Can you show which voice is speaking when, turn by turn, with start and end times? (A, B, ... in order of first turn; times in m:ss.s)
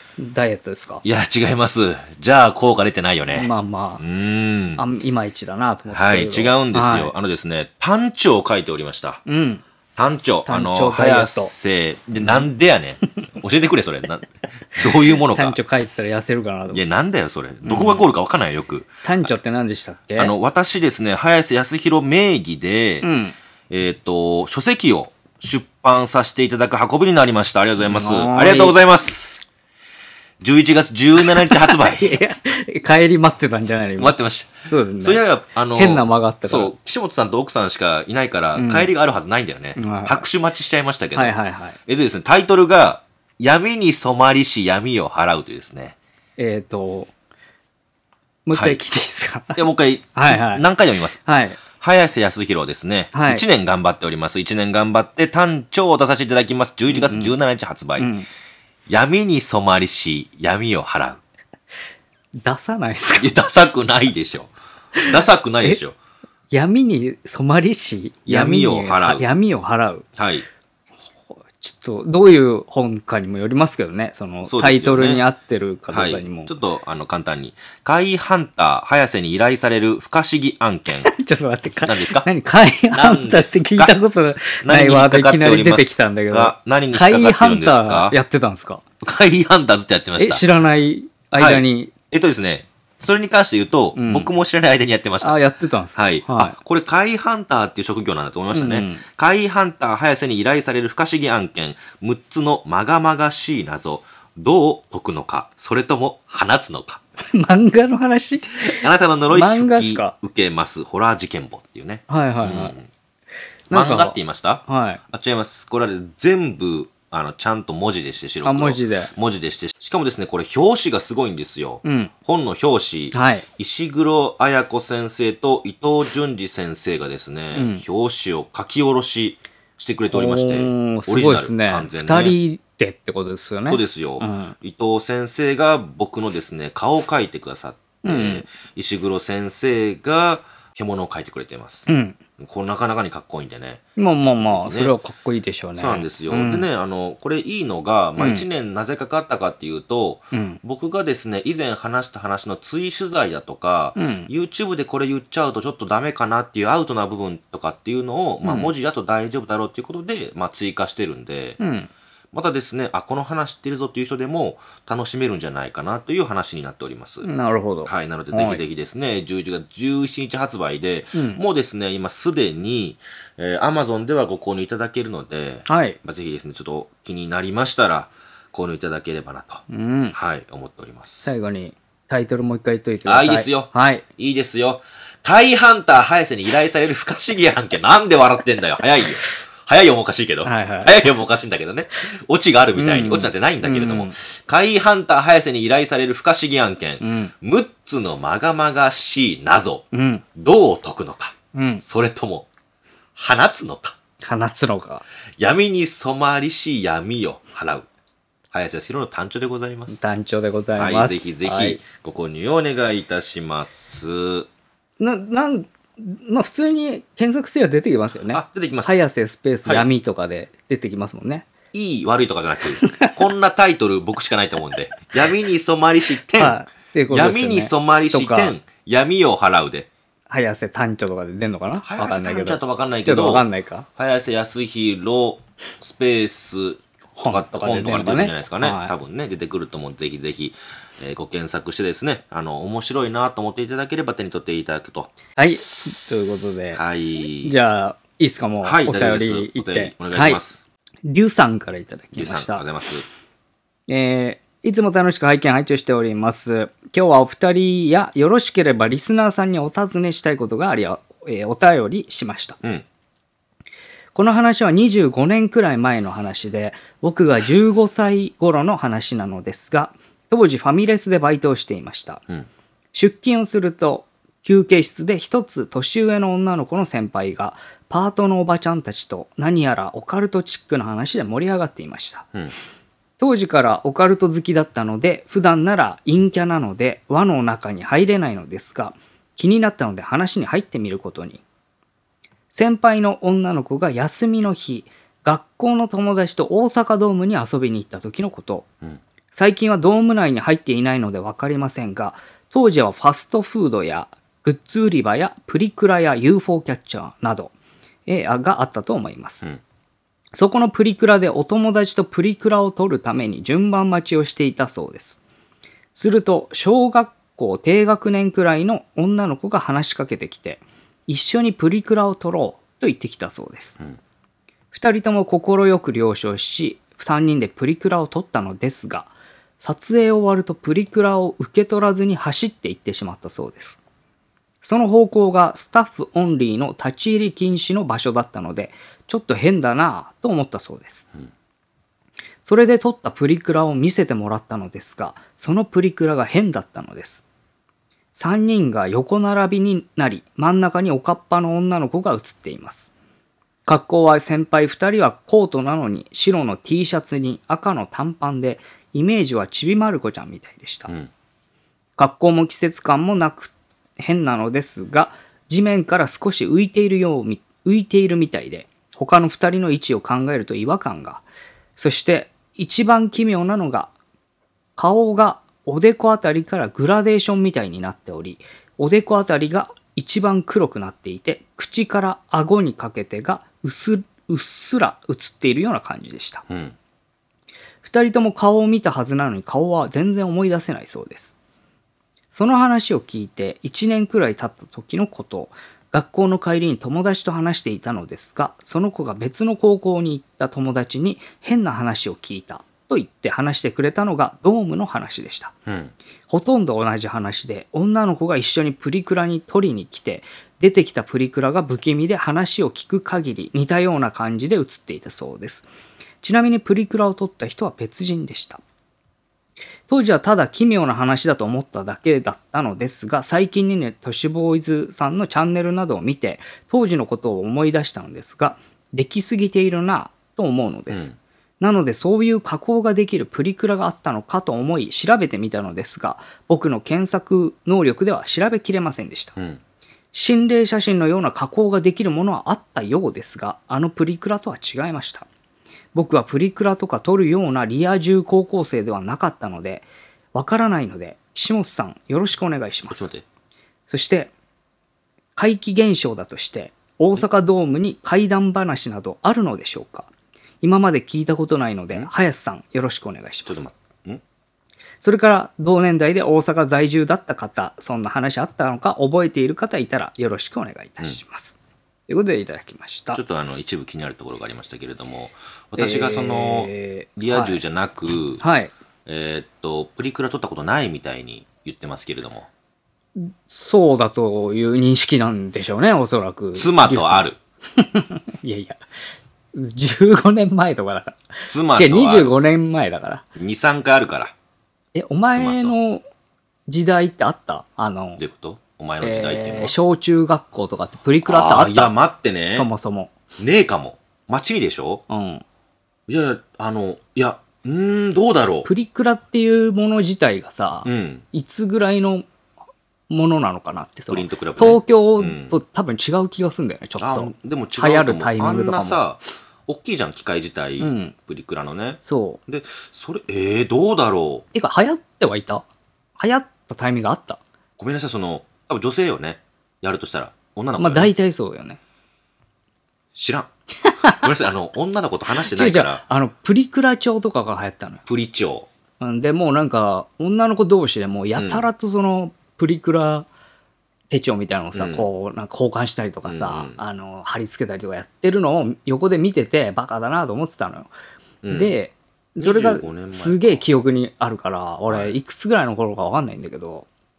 0:00.2-0:01.0 A
0:01.0-0:04.8 B
0:03.3-0:04.0 A
0:04.8-0:07.1 A
0:05.9-0:09.2 B
0:09.3-0:09.6 A
0:10.0-0:15.6 B
0:10.5-0:11.5 A
0:14.8-0:16.8 A
0:16.7-0:19.3 B
0:17.6-0:18.1 A
0:19.0-0:20.3 A
0:20.2-0:23.1 B
0:23.0-0:23.4 A
0:23.7-0:29.4 B
0:27.9-0:28.8 A
0:30.4-0:32.2 B
0:31.2-0:34.2 A
0:34.0-0:46.0 B
0:34.7-0:35.2 A
0:35.8-0:36.7 A
0:38.6-0:38.9 A
0:39.8-0:40.3 A
0:41.2-0:41.8 A
0:46.4-0:47.1 A
0:48.5-0:50.6 A
0:48.5-0:48.8 B
0:49.6-0:58.1 B
0:51.2-0:51.6 A
0:53.1-0:53.4 A
0:56.9-0:57.3 A
0:58.0-0:58.3 A
0:58.9-1:01.2 B
1:02.4-1:03.3 A
1:03.2-1:06.0 B
1:05.0-1:05.8 A
1:06.5-1:10.1 A
1:08.3-1:09.2 B
1:10.2-1:10.5 B
1:11.4-1:16.5 A
1:14.4-1:15.2 B
1:15.9-1:21.1 B
1:21.0-1:28.8 A
1:21.8-1:22.3 B
1:22.9-1:24.0 B
1:24.6-1:28.2 B
1:29.0-1:30.4 B
1:30.2-1:31.9 A
1:31.4-1:35.4 B
1:34.0-1:34.3 A
1:35.2-1:36.6 A
1:36.0-1:47.0 B
1:38.5-1:39.0 A
1:47.3-1:50.2 A
1:48.6-1:52.9 B
1:52.1-1:52.8 A
1:53.7-1:55.0 A
1:53.7-2:12.4 B
1:58.4-1:59.1 A
2:01.8-2:02.1 A
2:03.1-2:03.5 A
2:07.5-2:07.8 A
2:10.1-2:14.6 A
2:13.7-2:21.9 B
2:18.0-2:18.5 A
2:21.9-2:22.2 A
2:22.4-2:25.0 B
2:24.0-2:26.7 A
2:25.8-2:41.6 B
2:28.2-2:28.4 A
2:30.3-2:30.6 A
2:34.0-2:34.3 A
2:38.4-2:38.7 A
2:41.6-2:41.9 A
2:42.3-2:47.3 B
2:47.2-2:48.6 A
2:47.8-3:01.3 B
2:51.1-2:51.4 A
2:55.7-2:56.0 A
2:59.7-3:00.2 A
3:01.2-3:04.0 A
3:03.1-3:22.5 B
3:10.4-3:11.0 A
3:12.8-3:14.1 A
3:17.0-3:17.3 A
3:19.9-3:20.2 A
3:21.5-3:21.8 A
3:23.2-3:24.0 B
3:24.2-3:25.0 A
3:25.4-3:27.9 B
3:28.5-3:30.0 B
3:29.9-3:31.8 A
3:30.8-3:34.5 B
3:35.0-3:41.5 A
3:38.3-3:39.0 B
3:41.7-3:46.6 B
3:42.8-3:43.1 A
3:46.4-3:48.6 A
3:47.1-3:49.9 B
3:50.3-3:53.9 A
3:51.8-3:53.4 B
3:54.0-4:05.1 B
3:57.2-3:58.9 A
4:05.4-4:06.8 A
4:06.8-4:07.6 B
4:07.4-4:10.4 A
4:08.6-4:10.6 B
4:11.0-4:12.7 A
4:12.1-4:13.0 B
4:13.9-4:22.6 A
4:24.1-4:32.2 A
4:32.9-4:42.3 A
4:43.2-4:51.4 A
4:52.5-4:58.7 A
4:59.3-5:07.5 A
5:08.1-5:09.5 A
5:10.3-5:15.2 A
5:15.9-5:23.8 A
5:24.7-5:33.8 A
5:34.6-5:41.1 A
5:42.4-5:47.2 A
5:48.1-5:52.9 A
5:53.7-6:00.9 A
6:02.0-6:11.2 A
6:11.8-6:13.9 A
6:14.8-6:26.4 A
6:26.5-6:26.8 B
6:27.8-6:31.4 A
6:32.3-6:45.5 A
6:45.7-6:45.9 B
6:46.3-6:55.7 A
6:56.2-6:58.6 A
6:59.9-7:19.4 A
7:10.9-7:11.2 B
7:20.1-7:25.3 A
7:25.9-7:33.1 A
7:32.9-7:33.2 B
7:33.9-7:34.3 A
7:35.4-7:40.1 A
7:40.6-7:43.7 A
7:43.5-7:44.2 B
7:45.0-7:53.2 A
7:53.1-7:58.4 B
7:55.8-7:57.6 A
7:58.4-7:58.7 A
7:59.1-8:02.5 B
8:03.2-8:07.3 A
8:06.6-8:07.4 B
8:07.8-8:08.8 A
8:09.5-8:13.2 A
8:11.5-8:12.4 B
8:13.4-8:14.4 B
8:14.9-8:16.0 A
8:15.3-8:15.7 B
8:16.7-8:18.2 A
8:18.2-8:19.8 B
8:19.0-8:21.9 A
8:21.2-8:22.7 B
8:22.5-8:23.1 A
8:23.4-8:25.0 B
8:25.1-8:25.4 A
8:26.1-8:28.7 B
8:28.6-8:32.3 A
8:30.8-8:31.2 B
8:33.1-8:39.0 A
8:34.1-8:35.6 B
8:37.0-8:44.5 B
8:40.8-8:41.2 A
8:42.0-8:42.4 A
8:44.5-8:45.6 A
8:46.2-8:47.4 A
8:47.8-8:51.1 B
8:50.8-8:51.8 A
8:53.2-8:53.5 B
8:53.8-8:54.3 A
8:54.1-8:56.0 B
8:55.4-8:58.0 A
8:58.1-8:58.7 B
8:59.0-9:03.3 A
9:01.4-9:01.7 B
9:04.1-9:10.9 A
9:04.7-9:05.1 B
9:06.2-9:06.8 B
9:11.4-9:11.8 B
9:11.5-9:16.9 A
9:12.4-9:13.6 B
9:14.9-9:15.2 B